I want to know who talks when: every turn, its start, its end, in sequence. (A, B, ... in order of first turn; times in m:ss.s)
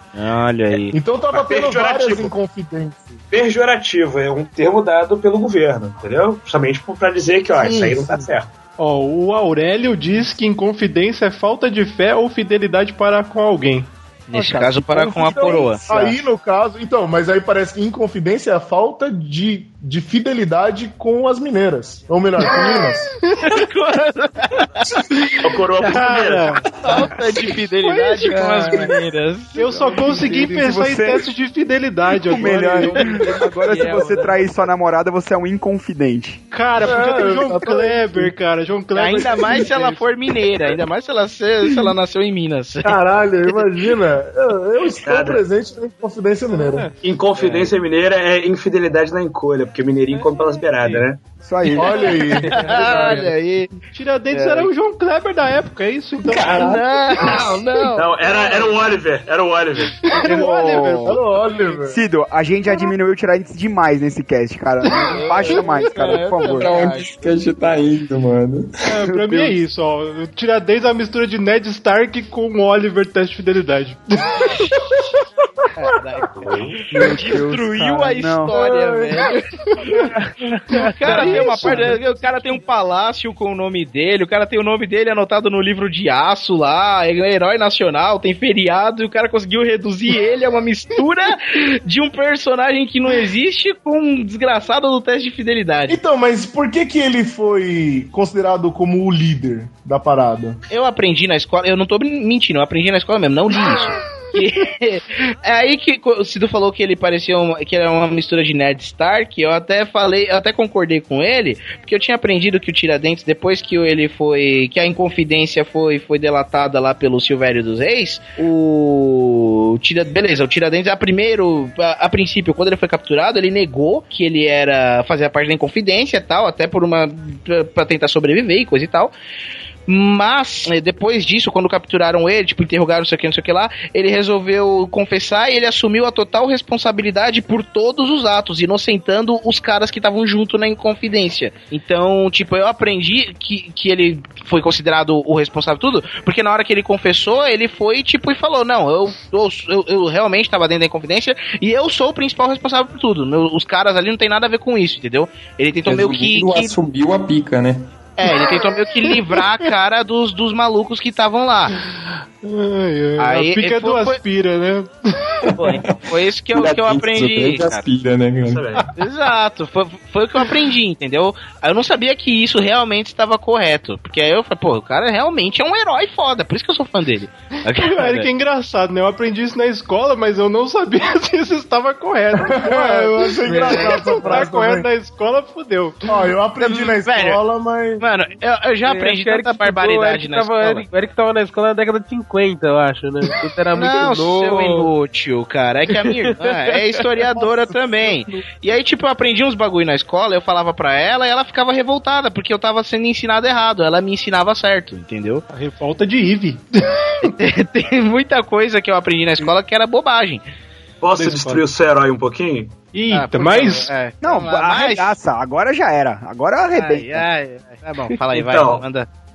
0:00.1-0:00.9 A
0:00.9-0:03.2 B
0:01.3-0:02.4 C
0:03.3-0:08.5 C
0:07.6-0:08.2 D
0:08.8-0:13.9 E
0:14.3-0:16.1 A
0:14.4-0:16.1 D
0:14.5-0:23.0 B
0:22.5-0:23.5 E
0:23.4-0:25.0 A
0:25.4-0:26.5 C
0:25.8-0:26.2 A
0:25.8-0:26.7 E
0:26.8-0:30.3 A
0:27.8-0:28.9 E
0:29.5-0:34.1 E
0:30.2-0:31.3 D
0:32.2-0:36.4 D
0:32.4-0:34.3 A
0:36.5-0:40.0 E
0:36.8-0:38.3 B
0:38.9-0:43.0 A
0:42.8-0:46.9 B
0:45.0-0:45.4 C
0:46.5-0:46.9 E
0:47.0-0:51.2 C
0:50.8-0:51.0 E
0:51.4-0:53.1 D
0:51.8-0:53.3 B
0:52.5-0:53.3 E
0:52.5-0:53.7 A
0:53.9-0:56.8 E
0:54.3-0:54.7 A
0:56.4-0:56.8 F
0:56.4-0:58.7 A
0:57.9-1:00.0 C
0:59.9-1:01.8 E
1:00.1-1:02.0 B
1:00.2-1:01.2 D
1:01.9-1:06.7 D
1:04.8-1:06.2 E
1:05.1-1:07.1 A
1:06.5-1:08.8 F
1:08.8-1:14.8 E
1:09.1-1:09.5 D
1:14.5-1:15.0 A
1:15.7-1:36.0 A
1:16.3-1:16.8 C
1:16.9-1:18.6 D
1:18.5-1:18.8 B
1:20.7-1:22.6 E
1:21.3-1:21.8 D
1:35.9-1:40.6 B
1:40.7-2:09.1 A
2:09.9-2:36.7 A
2:35.8-2:37.9 F
2:38.2-2:41.8 A
2:38.3-2:39.7 E
2:41.9-2:45.6 E
2:43.2-2:44.2 A
2:45.6-2:47.8 A
2:45.6-2:46.0 F
2:46.5-2:48.6 F
2:48.4-2:48.9 C
2:49.0-2:58.3 A
2:57.8-3:06.3 E
3:02.3-3:04.9 B
3:06.1-3:08.0 B
3:06.6-3:07.4 A
3:08.0-3:10.8 A
3:08.8-3:14.9 G
3:13.7-3:25.4 A
3:16.0-3:16.4 G
3:17.3-3:18.4 B
3:25.5-3:27.3 E
3:27.4-3:30.4 A
3:31.0-3:32.8 C
3:31.1-3:31.6 E
3:32.9-3:33.9 E
3:33.1-3:35.1 A
3:34.2-3:37.3 D
3:36.7-3:39.1 A
3:38.3-3:38.8 C